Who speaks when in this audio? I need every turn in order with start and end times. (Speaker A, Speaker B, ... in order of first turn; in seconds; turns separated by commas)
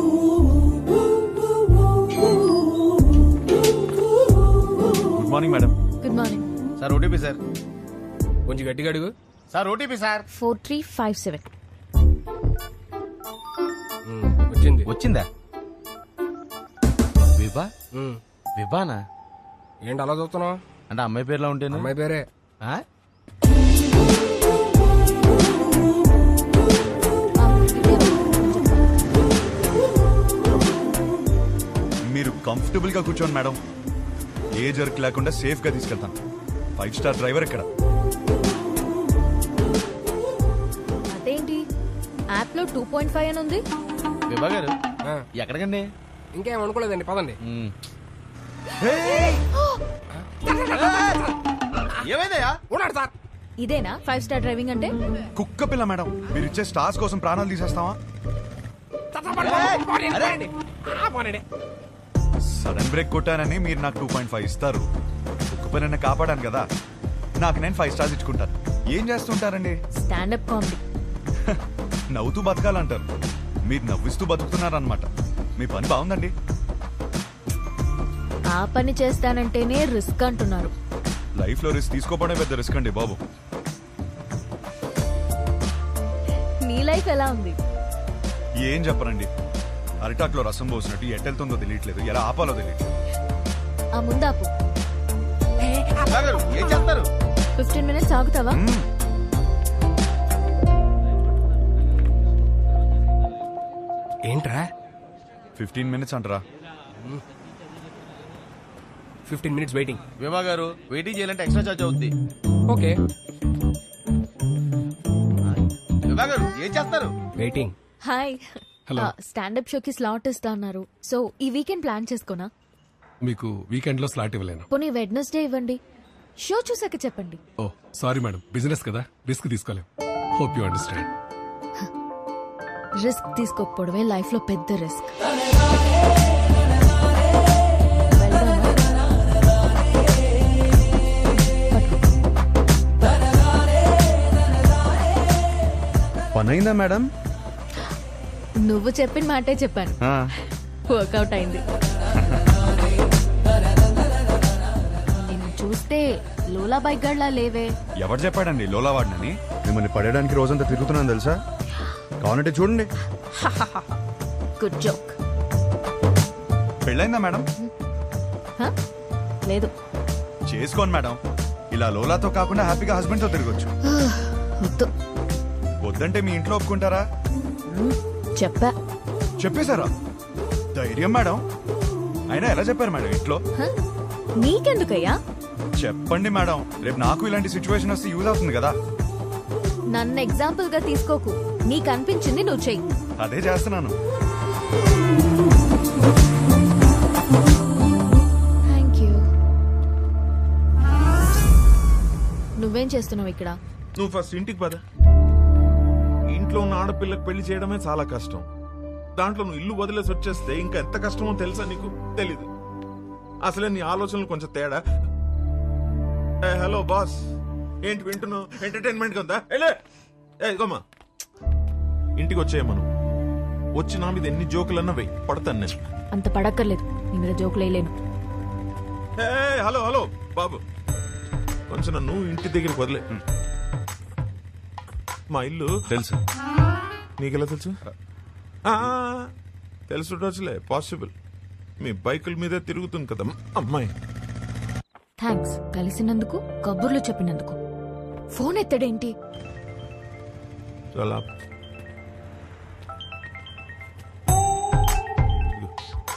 Speaker A: 5.1-5.8, Speaker B: 6.0-6.5, Speaker C: 6.8-7.4, Speaker D: 8.5-9.1, Speaker C: 9.5-10.2, Speaker B: 10.3-11.4, Speaker D: 14.1-14.9, Speaker C: 14.9-15.3, Speaker C: 17.4-17.7, Speaker D: 17.9-18.2, Speaker C: 18.6-19.0, Speaker D: 19.8-20.6, Speaker C: 20.9-21.9, Speaker D: 21.7-22.2, Speaker B: 27.4-28.9, Speaker A: 32.1-33.6, Speaker A: 34.6-36.2, Speaker A: 36.8-37.7, Speaker B: 41.1-41.6, Speaker B: 42.3-43.6, Speaker C: 44.3-44.7, Speaker C: 45.4-45.9, Speaker D: 46.3-47.4, Speaker C: 47.4-47.7, Speaker C: 48.8-49.4, Speaker D: 50.1-51.3, Speaker C: 50.8-51.1, Speaker C: 52.0-52.6, Speaker D: 52.7-53.1, Speaker B: 53.6-55.0, Speaker A: 55.4-58.0, Speaker D: 59.1-61.4, Speaker C: 59.4-60.5, Speaker A: 62.5-64.9, Speaker A: 65.5-66.6, Speaker A: 67.4-69.8, Speaker B: 70.0-70.8, Speaker A: 72.1-73.0, Speaker A: 73.7-75.1, Speaker A: 75.6-76.3, Speaker B: 78.5-80.7, Speaker A: 81.4-83.2, Speaker B: 86.6-87.6, Speaker A: 88.6-89.3, Speaker A: 90.0-92.8, Speaker B: 94.0-94.5, Speaker C: 96.0-97.1, Speaker B: 97.6-98.6, Speaker A: 98.5-98.8, Speaker D: 104.2-104.7, Speaker A: 105.6-106.4, Speaker D: 109.3-110.0, Speaker C: 110.2-112.1, Speaker D: 112.7-113.0, Speaker C: 115.5-117.1, Speaker D: 117.4-117.8, Speaker B: 118.0-122.5, Speaker E: 123.2-124.7, Speaker B: 124.7-125.8, Speaker B: 126.4-127.4, Speaker E: 127.6-129.9, Speaker E: 130.4-131.1, Speaker B: 133.0-135.1, Speaker B: 138.1-138.7, Speaker B: 141.5-142.0, Speaker A: 146.3-147.1, Speaker B: 148.6-150.0, Speaker A: 150.0-150.3, Speaker B: 150.9-151.6, Speaker B: 155.2-157.8, Speaker A: 158.0-161.4, Speaker A: 162.2-162.9, Speaker B: 163.3-163.8, Speaker B: 164.6-165.2, Speaker A: 166.8-167.4, Speaker B: 169.4-169.7, Speaker A: 170.5-171.2, Speaker A: 171.7-173.7, Speaker B: 173.9-174.9, Speaker A: 175.8-177.0, Speaker B: 177.7-178.7, Speaker A: 179.4-179.9, Speaker A: 180.7-181.4, Speaker A: 182.3-183.4, Speaker B: 184.4-185.2, Speaker A: 185.8-188.7, Speaker B: 189.9-192.8, Speaker A: 193.2-193.9, Speaker B: 198.7-199.3, Speaker B: 202.6-203.6, Speaker F: 204.0-204.8, Speaker F: 206.3-208.5, Speaker F: 209.2-212.5, Speaker F: 213.4-214.8, Speaker F: 216.4-217.2, Speaker F: 217.8-219.8, Speaker F: 220.4-220.8, Speaker F: 222.2-222.9, Speaker F: 223.8-225.8, Speaker B: 226.1-227.9, Speaker F: 229.2-230.6, Speaker F: 231.7-233.1, Speaker F: 235.3-235.7, Speaker A: 235.9-236.2, Speaker F: 237.2-237.8, Speaker F: 238.7-239.3, Speaker F: 239.9-241.1, Speaker F: 241.8-243.9, Speaker B: 245.2-247.6, Speaker B: 248.3-249.1, Speaker F: 250.9-251.2